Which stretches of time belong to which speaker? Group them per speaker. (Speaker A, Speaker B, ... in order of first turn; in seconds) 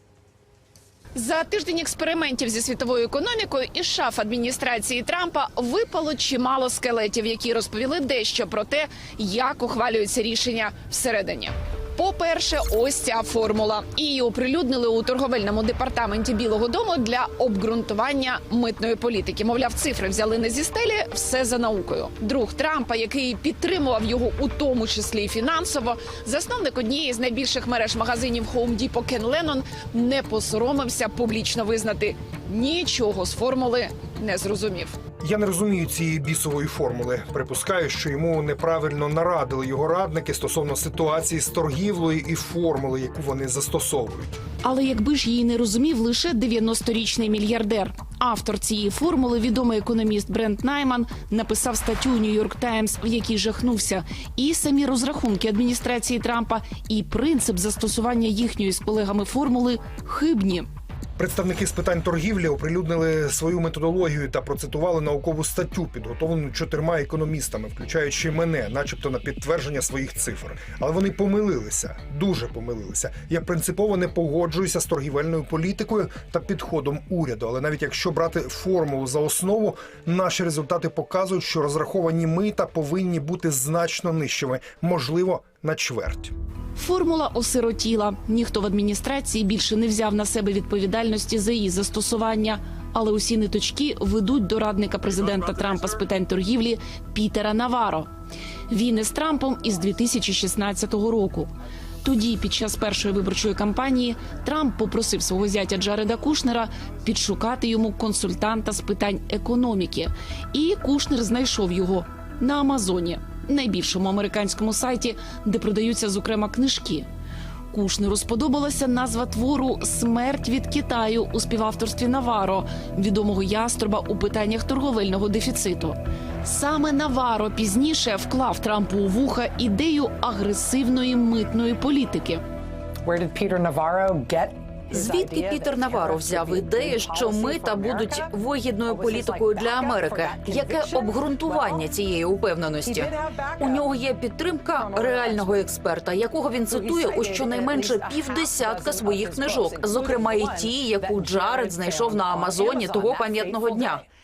Speaker A: 1.1-35.0, 44.6-60.7, 86.8-98.1, 98.7-101.5, 102.0-117.1, 117.7-132.4
Speaker B: 35.2-44.4, 61.2-86.3
Speaker C: 133.0-138.3, 138.9-141.9, 142.8-143.9, 144.7-145.6, 146.6-154.1
Speaker D: 134.9-154.0